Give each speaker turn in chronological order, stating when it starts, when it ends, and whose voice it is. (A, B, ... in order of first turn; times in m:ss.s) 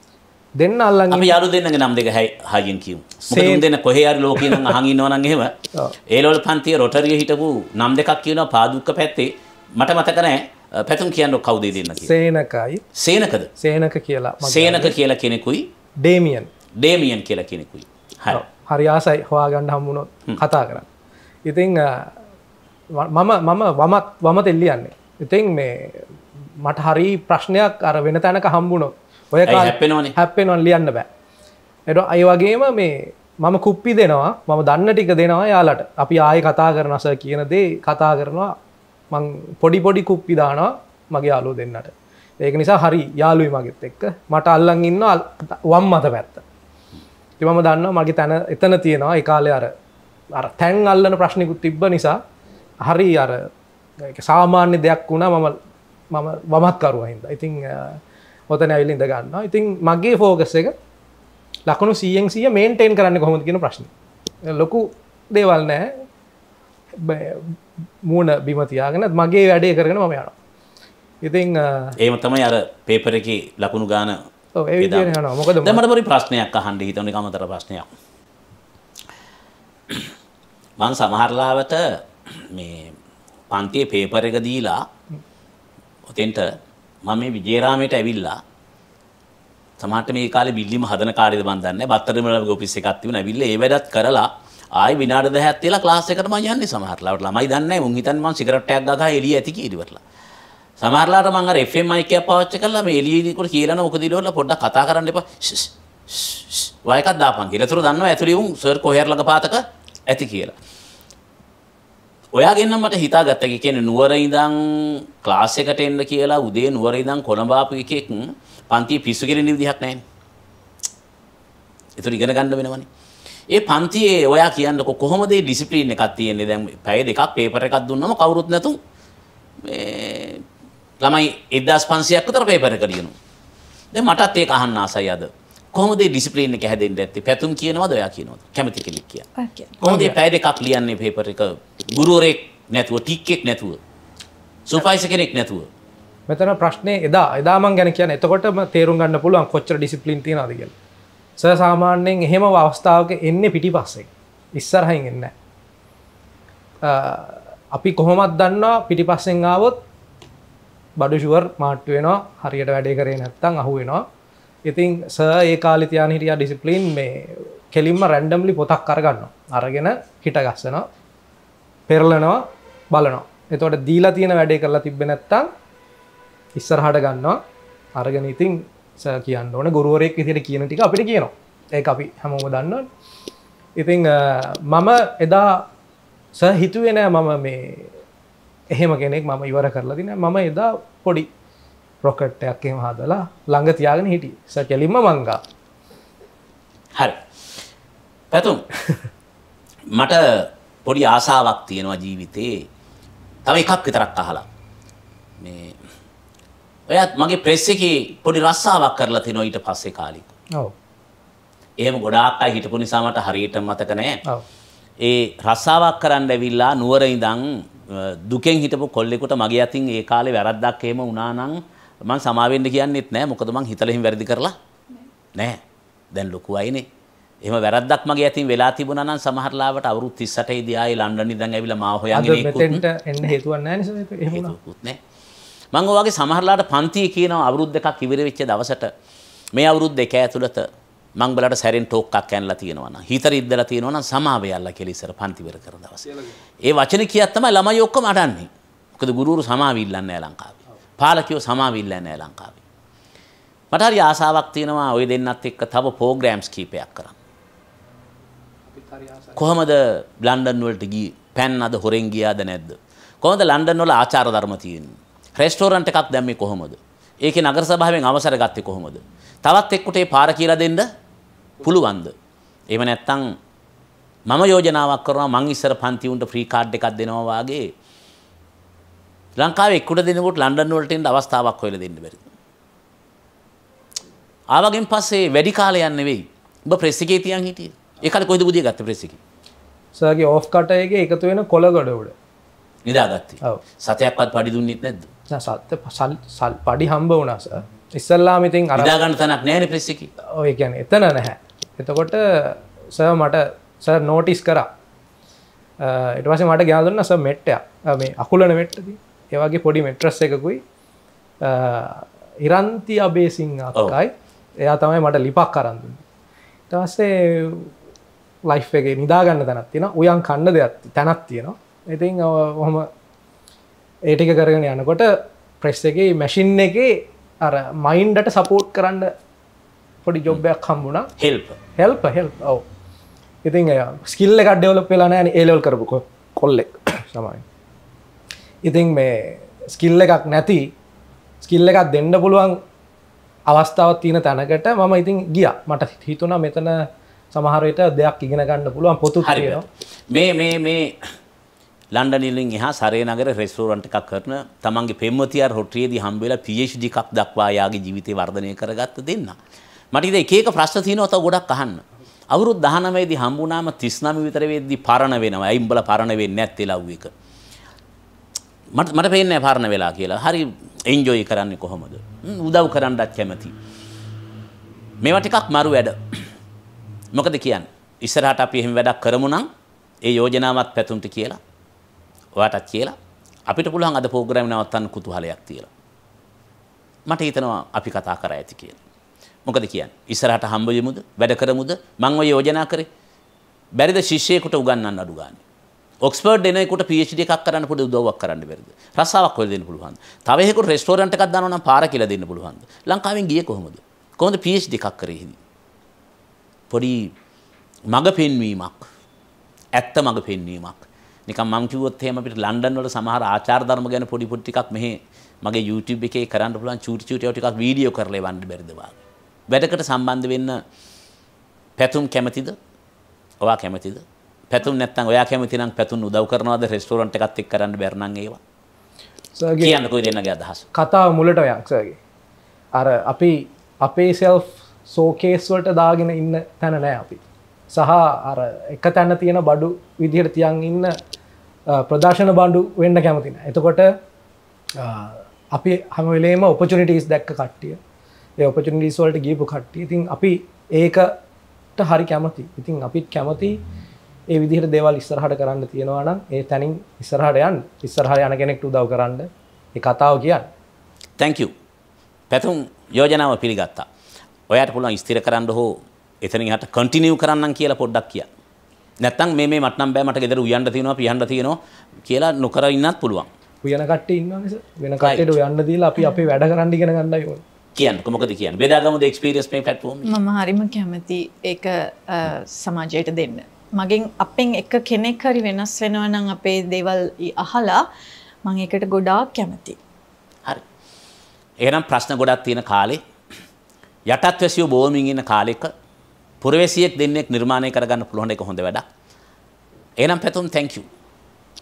0:00.6-0:01.4 A
0:01.1-0:05.6 B
0:03.3-0:03.7 A
0:04.4-0:04.7 A
0:06.1-0:12.1 B
0:12.0-0:12.8 A
0:13.0-0:13.5 B
0:13.6-0:15.0 A
0:14.4-0:15.7 B
0:16.0-0:16.5 A
0:16.8-0:18.4 B
0:18.3-0:20.9 A
0:21.5-0:22.2 A
0:22.9-0:31.1 A
0:29.5-0:30.2 B
0:31.9-0:38.6 A
0:39.1-0:46.4 A
0:47.4-0:49.7 A
0:50.3-0:52.2 A
0:52.8-0:53.5 A
0:54.0-0:55.6 A
0:56.1-1:00.7 A
1:01.7-1:03.9 A
1:04.5-1:06.0 A
1:07.0-1:10.4 A
1:11.2-1:12.0 A
1:12.0-1:14.2 B
1:14.6-1:15.8 A
1:14.8-1:17.9 B
1:20.8-1:23.0 B
1:23.5-1:24.9 B
1:26.1-1:28.4 B
1:29.8-1:40.0 B
1:40.8-1:50.6 B
1:52.3-2:00.0 B
2:02.0-2:02.9 B
2:03.5-2:08.8 B
2:09.6-2:10.4 B
2:11.0-2:13.2 B
2:13.9-2:19.3 B
2:19.4-2:19.8 C
2:19.8-2:23.8 B
2:19.8-2:20.2 A
2:24.7-2:25.7 B
2:26.3-2:30.7 A
2:31.4-2:35.3 A
2:36.8-2:39.8 A
2:41.0-2:44.0 A
2:44.6-2:50.9 A
2:51.9-2:55.5 A
2:56.6-2:57.4 A
2:58.0-3:02.9 A
3:03.8-3:05.7 A
3:06.4-3:08.0 A
3:08.7-3:11.3 A
3:12.0-3:15.4 A
3:17.0-3:17.2 B
3:18.3-3:18.6 B
3:19.9-3:22.7 B
3:23.4-3:24.5 B
3:25.4-3:25.8 B
3:26.9-3:30.3 B
3:31.8-3:34.2 B
3:35.0-3:44.6 B
3:45.3-3:45.6 B
3:46.1-3:46.9 B
3:47.4-3:52.8 B
3:52.1-3:54.6 A
3:54.3-3:55.0 B
3:55.7-3:58.9 B
3:59.5-4:12.6 B
4:13.7-4:17.2 B
4:18.7-4:19.5 A
4:19.4-4:30.9 B
4:31.6-4:32.1 B
4:32.7-4:33.4 B
4:34.3-4:37.7 B
4:39.4-4:42.2 B
4:44.5-4:49.2 B
4:50.0-4:52.2 A
4:52.9-4:55.1 B
4:55.3-4:59.0 A
4:58.7-5:00.1 B
5:00.3-5:04.7 A
5:05.8-5:10.6 A
5:11.4-5:14.1 A
5:14.6-5:16.0 A
5:16.7-5:17.7 A
5:18.4-5:22.9 A
5:24.1-5:29.1 A
5:30.0-5:31.1 A
5:31.2-5:31.6 B
5:31.8-5:32.6 A
5:33.4-5:37.4 A
5:38.6-5:40.7 A
5:41.4-5:42.6 A
5:43.5-5:49.7 A
5:49.2-5:51.2 B
5:51.9-5:59.4 B
5:59.9-6:07.1 B
6:08.7-6:13.6 B
6:15.0-6:16.3 B
6:17.1-6:19.5 B
6:20.0-6:21.4 B
6:22.4-6:23.0 B
6:23.5-6:25.7 B
6:27.1-6:28.8 B
6:29.4-6:32.9 B
6:33.8-6:35.4 B
6:36.0-6:45.4 B
6:46.7-6:47.1 B
6:47.9-6:48.9 B
6:49.8-6:59.0 B
6:59.5-7:00.6 B
7:01.8-7:02.6 B
7:03.4-7:08.4 B
7:09.4-7:09.8 A
7:09.6-7:10.7 B
7:10.7-7:12.0 A
7:12.8-7:21.0 A
7:21.7-7:23.9 A
7:24.8-7:27.8 A
7:28.4-7:31.1 A
7:31.8-7:33.6 A
7:34.3-7:40.5 A
7:41.2-7:41.5 B
7:42.3-7:43.9 B
7:44.5-7:48.3 B
7:49.0-7:53.3 B
7:53.6-7:57.4 A
7:55.0-7:55.4 B
7:57.8-8:00.2 B
8:00.1-8:07.8 C
8:08.4-8:09.8 C
8:11.6-8:13.0 B
8:14.1-8:15.7 B
8:16.4-8:18.9 B
8:20.0-8:20.9 B